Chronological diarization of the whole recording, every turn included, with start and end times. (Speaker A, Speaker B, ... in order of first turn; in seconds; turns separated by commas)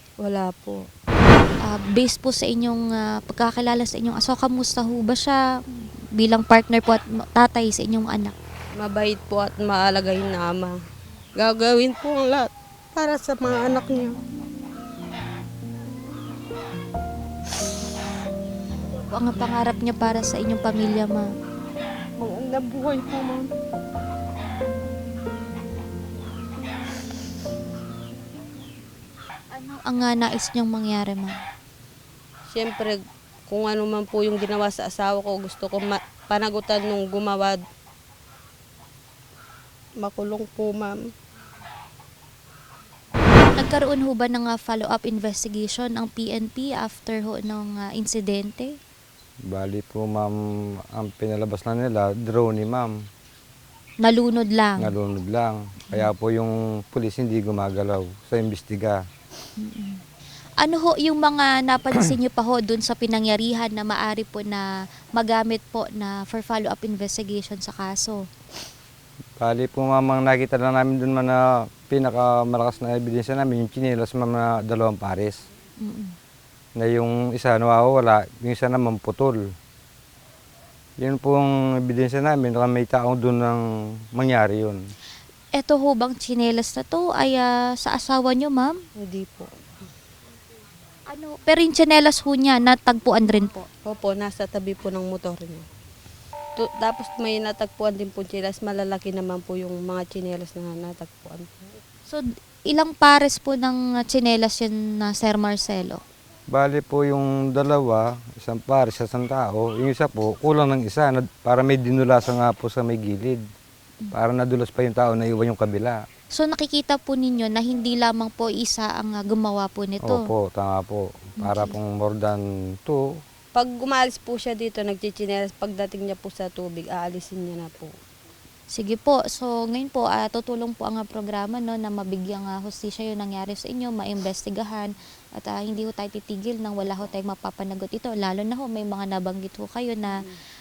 Speaker A: 0.2-0.8, Speaker B: 1.6-5.4, Speaker B: 6.2-8.3, Speaker A: 8.8-10.7, Speaker A: 11.4-14.2, Speaker B: 19.0-21.3, Speaker A: 22.5-23.4, Speaker B: 29.5-31.4, Speaker A: 32.5-33.0, Speaker A: 33.5-37.6, Speaker A: 40.0-41.0, Speaker B: 43.5-48.7, Speaker C: 49.5-50.3, Speaker C: 50.9-52.9, Speaker B: 54.0-54.9, Speaker C: 54.8-59.0, Speaker B: 59.6-60.0, Speaker B: 60.6-68.2, Speaker C: 69.4-75.4, Speaker B: 75.8-76.1, Speaker C: 76.8-79.4, Speaker C: 81.0-83.6, Speaker C: 84.1-84.8, Speaker B: 85.5-88.7, Speaker A: 89.0-89.9, Speaker B: 91.1-93.7, Speaker A: 93.8-95.6, Speaker A: 96.6-101.8, Speaker B: 102.1-106.0, Speaker C: 106.5-113.4, Speaker C: 114.1-116.0, Speaker B: 116.3-120.2, Speaker C: 120.0-123.1, Speaker B: 121.4-121.7, Speaker A: 123.5-127.9, Speaker B: 128.7-140.2, Speaker A: 140.1-140.4